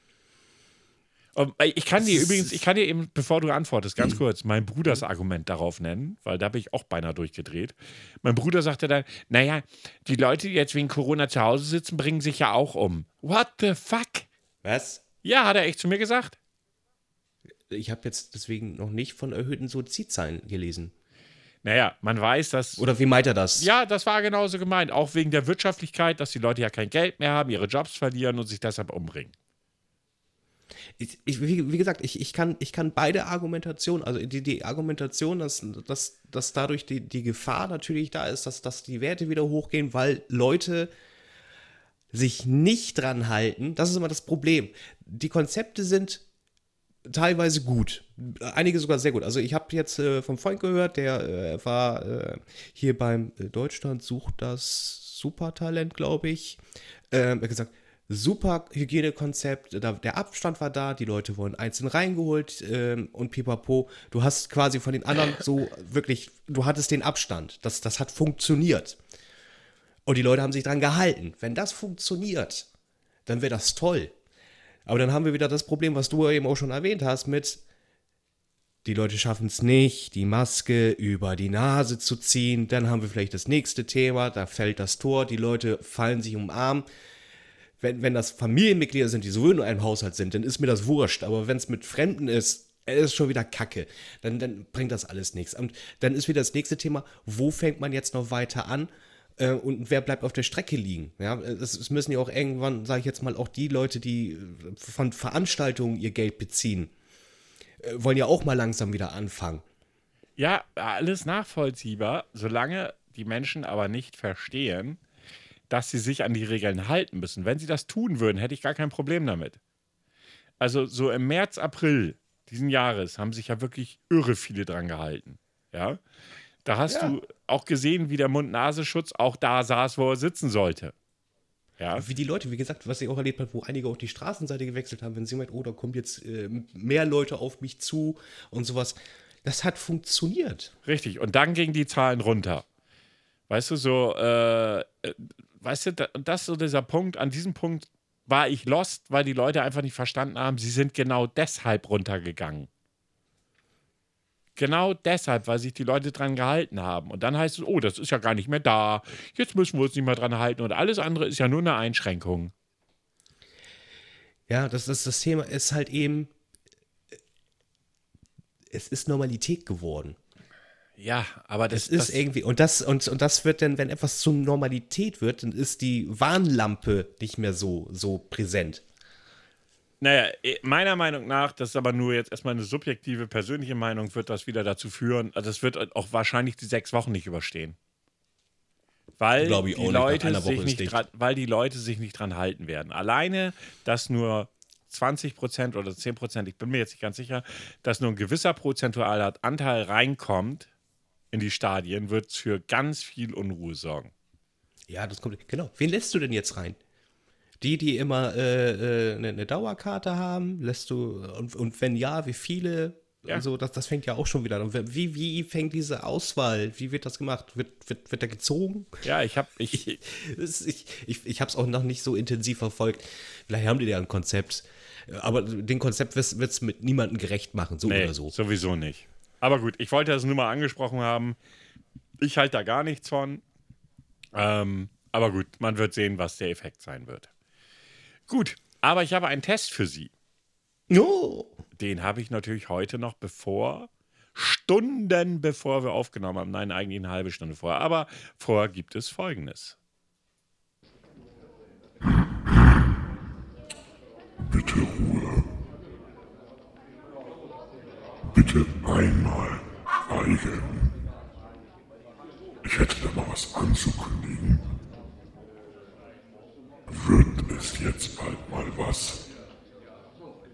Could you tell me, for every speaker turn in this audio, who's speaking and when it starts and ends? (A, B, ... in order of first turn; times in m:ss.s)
0:01.4-0:14.3 A
0:02.0-0:02.6 B
0:14.6-0:15.0 B
0:15.2-0:16.4 A
0:17.7-0:20.9 B
0:21.6-0:22.8 A
0:22.8-0:23.7 B
0:23.6-0:29.3 A
0:31.0-0:40.9 B
0:42.1-0:46.2 B
0:47.1-1:09.0 B
1:10.1-1:12.7 B
1:13.3-1:14.1 B
1:14.9-1:17.6 B
1:18.8-1:26.9 B
1:27.8-1:46.9 B
1:47.8-1:49.6 B
1:50.4-1:55.0 A
1:55.7-1:59.6 A
2:00.6-2:06.0 A
2:06.6-2:10.9 A
2:06.9-2:07.2 B
2:11.8-2:12.1 A
2:12.0-2:20.7 B
2:20.8-2:22.6 A
2:23.5-2:32.7 A
2:34.6-2:42.5 A
2:44.5-2:46.3 B
2:48.7-2:50.2 B
2:51.0-2:52.2 A
2:51.7-2:58.8 B
3:00.0-3:07.8 A
3:09.2-3:20.7 A
3:09.4-3:11.0 B
3:21.3-3:24.1 A
3:24.9-3:26.8 B
3:27.6-3:39.0 B
3:39.0-3:40.0 A
3:40.0-3:48.3 B
3:47.8-3:51.4 A
3:52.2-3:53.4 A
3:54.4-3:57.3 A
3:58.3-4:00.1 A
4:00.9-4:01.6 B
4:01.8-4:09.8 A
4:14.4-4:15.5 C
4:18.3-4:21.0 C
4:22.6-4:24.8 C
4:26.9-4:29.3 C